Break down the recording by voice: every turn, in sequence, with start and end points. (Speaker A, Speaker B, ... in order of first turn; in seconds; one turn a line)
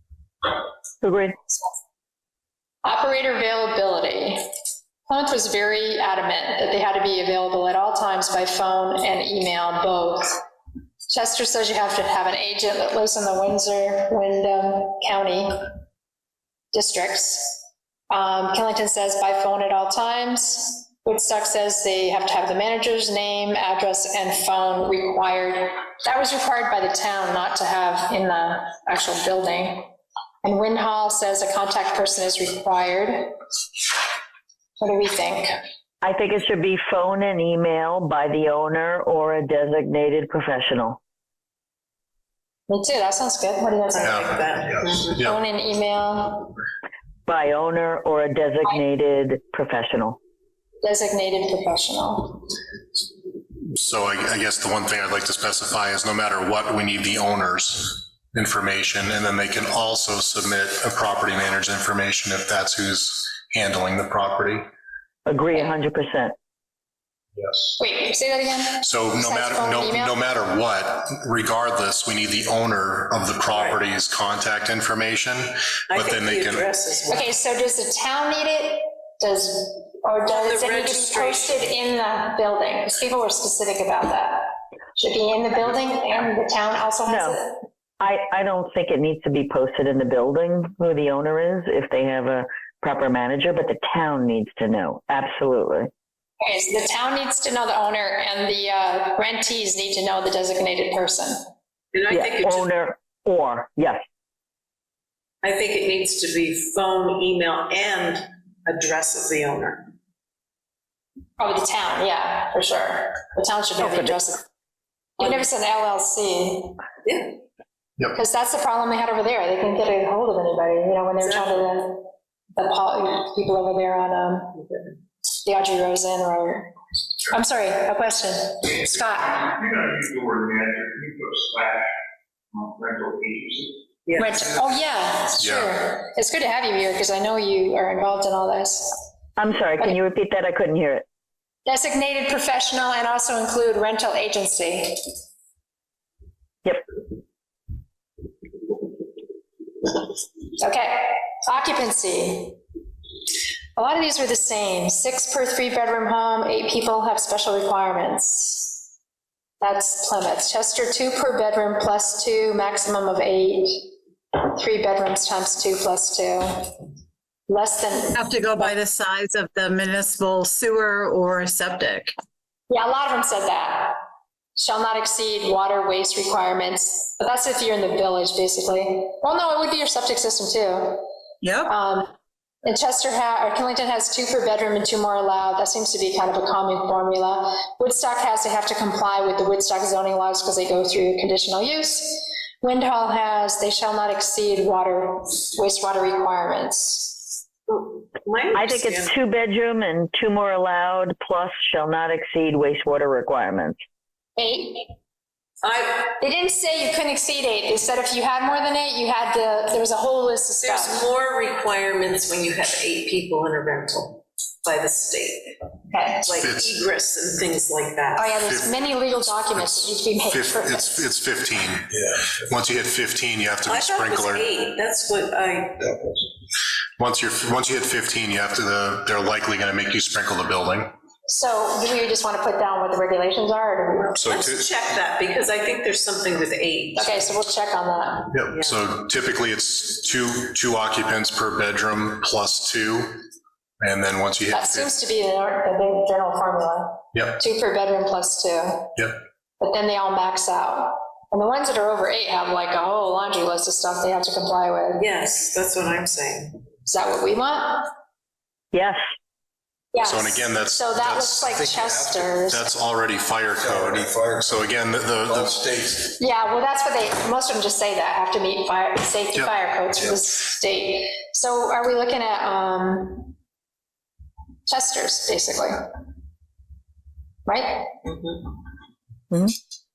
Speaker A: 1.0-1.4
Speaker B: 2.8-4.4
Speaker B: 5.1-10.4
Speaker B: 11.1-15.7
Speaker B: 16.7-29.9
Speaker B: 30.4-33.4
Speaker B: 34.8-35.5
Speaker A: 36.0-41.0
Speaker B: 42.7-44.4
Speaker C: 43.9-45.2
Speaker D: 45.1-45.4
Speaker B: 45.2-46.5
Speaker A: 47.3-50.2
Speaker B: 50.8-52.5
Speaker D: 53.7-64.7
Speaker A: 65.3-66.3
Speaker B: 67.8-70.2
Speaker D: 68.8-76.7
Speaker C: 73.5-73.8
Speaker C: 75.9-77.3
Speaker B: 77.1-87.6
Speaker C: 80.3-81.6
Speaker A: 87.1-87.4
Speaker A: 88.0-95.9
Speaker B: 96.4-101.4
Speaker C: 101.9-102.7
Speaker A: 102.1-104.0
Speaker C: 105.4-109.9
Speaker B: 111.4-114.4
Speaker A: 113.8-114.2
Speaker B: 115.2-116.8
Speaker C: 117.0-117.4
Speaker B: 118.1-124.6
Speaker C: 121.2-121.6
Speaker C: 124.6-124.9
Speaker B: 125.5-126.7
Speaker B: 127.3-129.6
Speaker E: 129.4-131.9
Speaker E: 132.6-133.7
Speaker C: 134.1-134.4
Speaker B: 134.2-139.0
Speaker D: 135.4-135.7
Speaker A: 139.4-141.1
Speaker B: 141.7-145.0
Speaker B: 150.6-152.6
Speaker B: 153.8-158.8
Speaker B: 159.6-166.7
Speaker B: 167.5-168.2
Speaker F: 168.1-172.2
Speaker B: 172.7-174.0
Speaker B: 174.6-181.1
Speaker F: 181.4-181.7
Speaker B: 181.7-182.1
Speaker B: 182.6-197.3
Speaker C: 197.7-199.2
Speaker A: 198.5-203.8
Speaker B: 204.4-204.9
Speaker C: 205.6-206.1
Speaker B: 206.2-211.0
Speaker C: 210.6-215.6
Speaker B: 215.9-216.3
Speaker C: 216.2-218.3
Speaker D: 216.3-216.8
Speaker B: 218.2-221.1
Speaker D: 218.3-221.9
Speaker E: 222.0-222.4
Speaker D: 222.4-224.5
Speaker C: 223.7-225.8
Speaker E: 225.9-226.1
Speaker D: 227.0-230.9
Speaker B: 231.3-234.5
Speaker D: 234.2-234.7
Speaker C: 234.2-237.3
Speaker B: 237.0-238.4
Speaker D: 238.3-243.2
Speaker C: 238.5-238.8
Speaker D: 243.8-244.9
Speaker B: 244.5-249.0
Speaker D: 247.1-247.4
Speaker B: 249.6-255.0
Speaker C: 255.0-256.6
Speaker B: 256.9-257.9
Speaker A: 258.7-259.0
Speaker B: 259.9-262.6
Speaker D: 260.0-261.5
Speaker E: 261.5-262.4
Speaker D: 262.4-265.6
Speaker E: 263.6-266.1
Speaker B: 266.2-273.3
Speaker B: 274.7-275.8
Speaker B: 277.5-277.9
Speaker C: 278.0-278.5
Speaker A: 279.3-279.6